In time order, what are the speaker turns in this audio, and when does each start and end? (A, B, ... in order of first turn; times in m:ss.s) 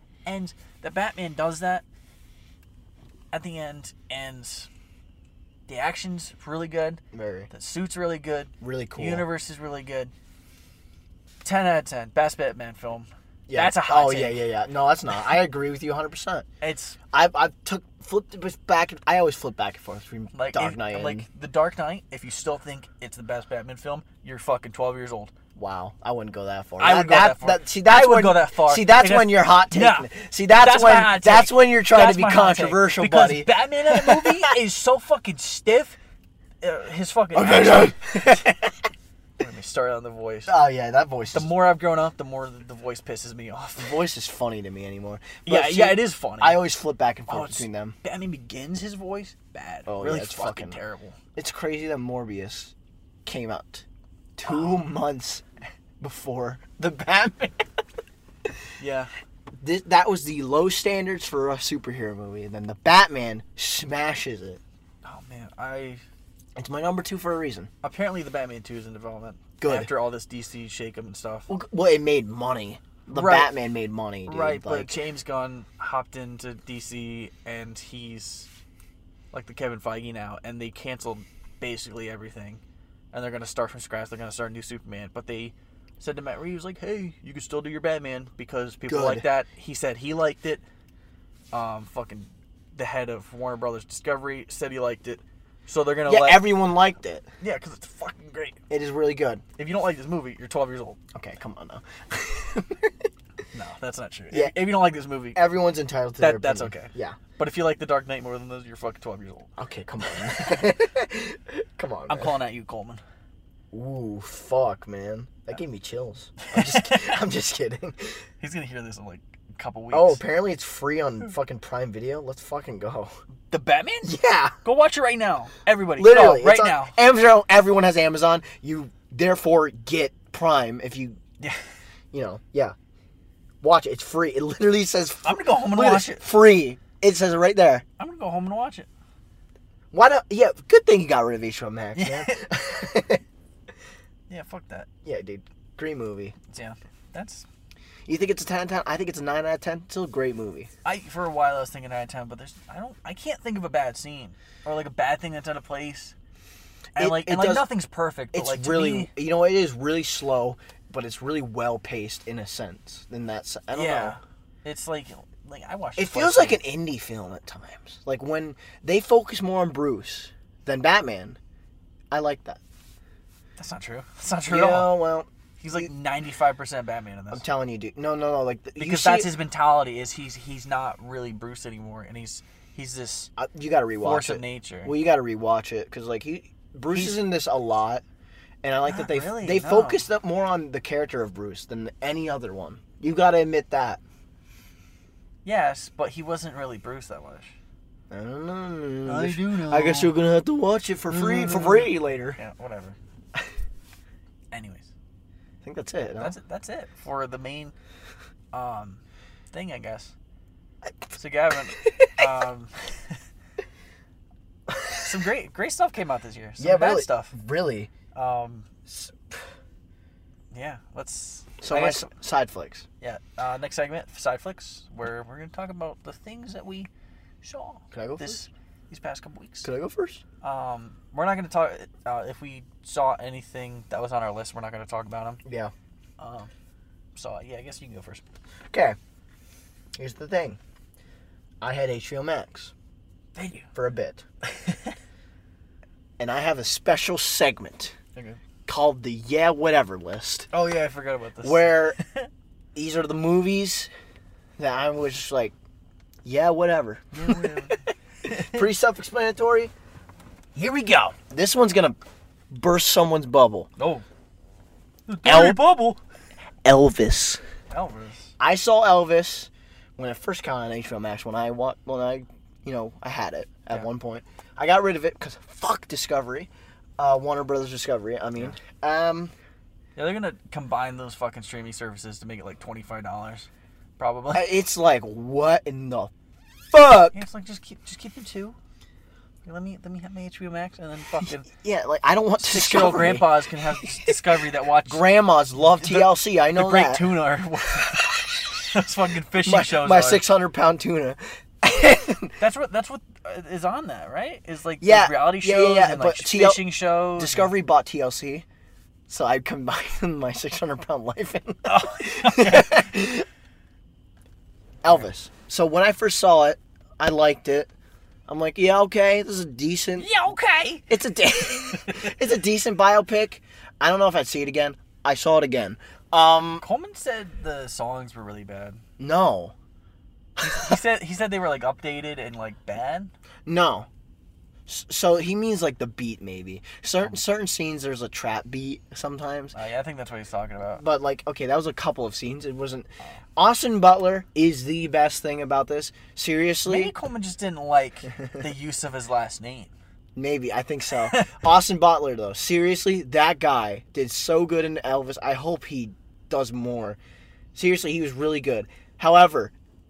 0:00.2-0:01.8 A
0:03.3-0:04.7 A
0:05.7-0:10.1 A
0:07.1-0:07.5 B
0:08.6-0:09.2 B
0:11.4-0:14.5 A
0:13.5-0:16.4 B
0:16.6-0:17.0 A
0:17.1-0:21.2 B
0:20.3-0:25.3 A
0:25.6-0:34.5 B
0:26.8-0:36.0 A
0:36.6-0:38.6 A
0:37.3-0:38.5 B
0:39.4-0:40.5 A
0:40.5-0:41.5 B
0:41.3-0:44.0 A
0:43.8-0:48.0 B
0:45.4-0:46.6 A
0:47.3-0:51.2 A
0:49.9-0:50.8 B
0:51.4-0:52.7 B
0:53.2-0:53.8 B
0:54.4-0:55.4 B
0:56.0-0:57.7 B
0:58.8-0:59.1 A
0:59.6-1:04.6 B
1:05.0-1:06.0 A
1:06.6-1:07.7 B
1:07.8-1:11.5 A
1:09.6-1:09.9 B
1:11.5-1:15.0 B
1:13.1-1:13.5 A
1:14.2-1:18.5 A
1:19.3-1:22.6 A
1:23.1-1:30.6 A
1:28.9-1:29.2 B
1:31.5-1:36.6 A
1:36.0-1:37.2 B
1:37.4-1:38.6 A
1:38.7-1:39.4 B
1:39.6-1:41.0 A
1:41.1-1:43.1 B
1:43.5-1:45.4 A
1:44.3-1:44.7 B
1:45.3-1:47.2 B
1:46.2-1:49.5 A
1:49.6-1:52.3 B
1:50.0-1:50.3 A
1:52.1-1:53.0 A
1:53.7-1:58.2 B
1:56.4-1:57.2 A
1:58.4-2:00.2 A
1:59.9-2:03.1 B
2:03.5-2:07.0 A
2:04.0-2:04.6 B
2:06.0-2:11.2 B
2:12.1-2:12.7 B
2:13.6-2:17.8 B
2:15.2-2:16.3 A
2:18.0-2:18.9 A
2:19.9-2:23.2 B
2:22.0-2:22.4 A
2:24.3-2:24.9 A
2:25.0-2:26.3 B
2:26.5-2:27.4 A
2:28.1-2:30.7 B
2:30.8-2:36.1 A
2:37.0-2:39.1 A
2:37.0-2:37.7 B
2:38.3-2:44.2 B
2:43.7-2:46.6 A
2:46.0-2:51.4 B
2:52.1-2:52.6 B
2:53.6-2:55.0 A
2:54.5-2:55.9 B
2:55.6-2:57.4 A
2:57.3-2:59.3 B
2:58.8-3:03.3 A
3:03.4-3:08.0 B
3:04.0-3:05.0 A
3:06.9-3:07.2 A
3:08.6-3:14.0 B
3:08.8-3:10.0 A
3:15.4-3:17.5 A
3:18.1-3:22.4 B
3:19.0-3:20.1 A
3:21.1-3:23.0 A
3:24.5-3:24.9 A
3:25.6-3:26.3 B
3:26.2-3:27.7 A
3:28.5-3:30.1 A
3:31.1-3:33.2 A
3:31.8-3:32.2 B
3:34.7-3:35.0 B
3:35.0-3:37.3 A
3:36.6-3:37.9 B
3:38.1-3:38.7 A
3:38.9-3:39.3 B
3:40.5-3:42.1 A
3:41.6-3:42.8 B
3:43.0-3:46.9 A
3:47.4-3:49.7 A
3:47.9-3:48.4 B
3:49.6-3:50.2 B
3:50.4-3:55.4 A
3:55.4-3:55.7 B
3:56.2-3:56.5 A
3:57.2-3:58.2 A
3:58.7-3:59.0 B
4:00.0-4:00.6 B
4:01.6-4:02.7 B
4:03.4-4:03.7 A
4:03.7-4:04.2 B
4:04.5-4:04.9 A
4:06.2-4:07.9 B
4:08.6-4:10.5 B
4:10.5-4:12.3 A
4:11.4-4:12.0 B
4:12.7-4:13.9 B
4:14.6-4:15.5 B
4:16.2-4:17.7 B
4:17.1-4:18.7 A
4:18.3-4:19.7 B
4:20.5-4:22.0 B
4:22.5-4:23.7 B
4:23.8-4:24.0 A
4:25.1-4:26.0 A
4:25.2-4:25.6 B
4:26.6-4:27.4 B
4:27.7-4:28.3 A
4:28.4-4:39.3 B
4:40.0-4:44.5 A
4:44.3-4:46.1 B
4:46.7-4:47.1 B
4:47.1-4:48.6 A
4:49.4-4:51.5 A
4:51.2-4:54.2 B
4:52.4-4:55.0 A
4:54.8-4:57.1 B
4:55.6-5:00.2 A
4:59.4-5:02.3 B
5:02.4-5:07.5 A
5:04.8-5:08.4 B
5:09.1-5:13.2 B
5:11.6-5:12.9 A
5:14.8-5:17.7 B
5:18.3-5:20.1 B
5:20.0-5:20.9 A
5:20.9-5:26.6 B
5:21.5-5:22.2 A
5:26.6-5:28.8 A
5:29.0-5:29.5 B
5:30.4-5:30.8 B
5:30.4-5:33.1 A
5:33.4-5:33.9 B
5:34.7-5:39.5 B
5:39.5-5:40.8 A
5:40.8-5:46.9 B
5:46.6-5:49.7 A
5:50.2-5:57.0 B
5:51.1-5:51.3 A
5:57.5-5:59.5 B